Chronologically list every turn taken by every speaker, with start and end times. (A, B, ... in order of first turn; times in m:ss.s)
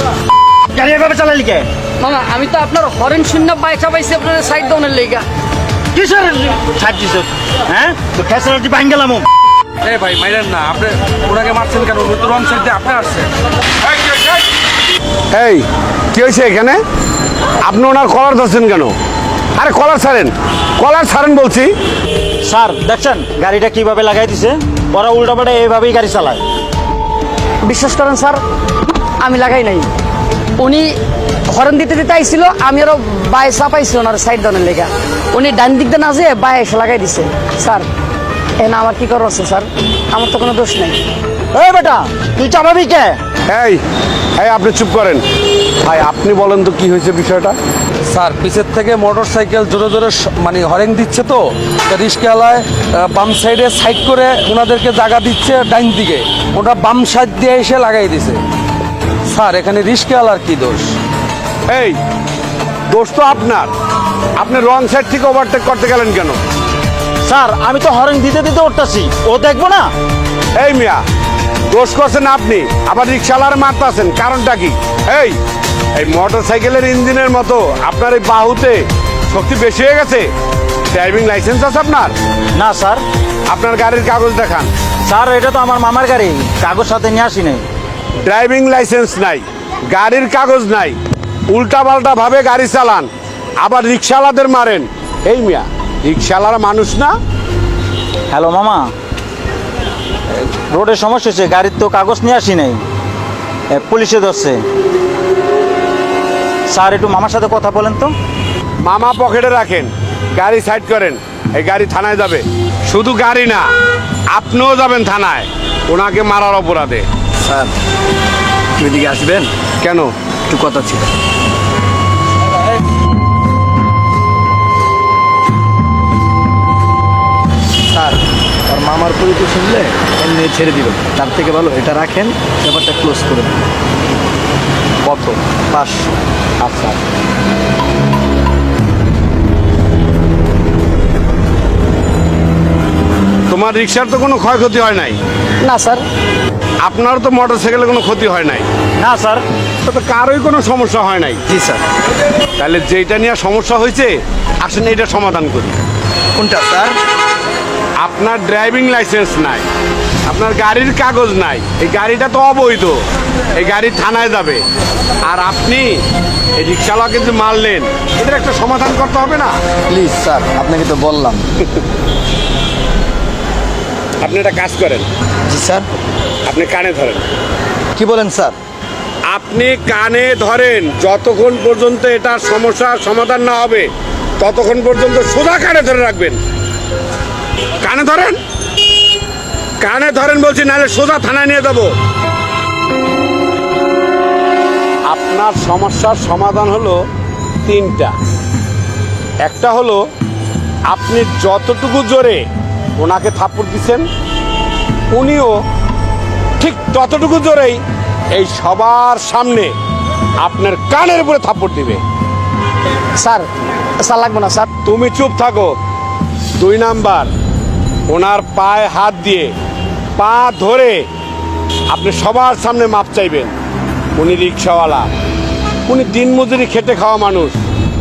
0:00.7-0:01.7 A
0:02.0-0:05.3 B
0:05.9-0:09.3 A
0:09.8-0:13.3 C
0:15.3-0:16.8 D
0:17.6-0:19.0 D
0:19.6-0:21.7 D
0:22.4-0:26.4 A
0:27.6-0:28.4 B
0:29.2-0:29.9 B
0:30.6-0:30.9 B
0:31.5-0:37.9 B
0:38.6-0:41.0 B
0:41.5-0:43.2 A
0:43.5-0:43.8 D
0:44.4-0:45.2 D
0:45.8-0:47.6 D
0:48.1-0:58.4 C
0:59.3-1:01.0 C
1:01.7-1:02.0 D
1:02.9-1:03.7 D
1:04.4-1:06.4 D
1:07.2-1:09.9 A
1:10.6-1:11.0 D
1:11.7-1:15.4 D
1:16.0-1:20.3 D
1:20.9-1:22.1 D
1:22.6-1:23.0 A
1:23.5-1:24.7 D
1:25.1-1:27.6 A
1:28.2-1:31.0 D
1:31.5-1:33.1 D
1:33.6-1:37.2 D
1:38.3-1:38.9 A
1:40.4-1:42.8 A
1:43.7-1:44.6 A
1:46.7-1:48.1 A
1:48.8-1:53.7 D
1:54.3-1:57.1 D
1:57.4-1:57.7 E
1:58.8-1:59.5 E
1:59.8-2:00.1 D
2:00.5-2:01.1 E
2:07.9-2:13.6 E
2:15.0-2:16.1 E
2:16.6-2:17.0 D
2:23.5-2:25.2 D
2:25.6-2:26.0 B
2:26.8-2:28.7 D
2:29.0-2:29.4 A
2:29.8-2:31.4 D
2:31.5-2:31.8 E
2:32.6-2:35.8 D
2:36.4-2:37.0 E
2:38.0-2:39.7 D
2:40.2-2:43.0 D
2:43.5-2:44.6 D
2:45.2-2:46.0 D
2:46.6-2:49.6 D
2:49.9-2:51.5 E
2:54.2-2:55.1 D
2:55.5-2:55.9 E
2:56.5-2:57.3 D
2:58.0-2:58.6 E
2:59.3-3:06.4 D
3:07.8-3:08.4 D
3:09.8-3:11.9 D
3:15.1-3:17.0 D
3:17.6-3:18.2 D
3:19.4-3:20.0 D
3:20.9-3:22.4 D
3:23.0-3:24.1 D
3:25.1-3:25.6 D
3:26.6-3:27.8 D
3:28.3-3:29.7 D
3:30.4-3:32.0 D
3:33.2-3:33.5 B
3:34.0-3:34.7 B
3:34.8-3:35.8 D
3:36.6-3:37.3 D
3:38.1-3:39.5 D
3:40.2-3:41.1 D
3:41.9-3:43.5 D
3:44.2-3:45.1 D
3:45.9-3:47.6 D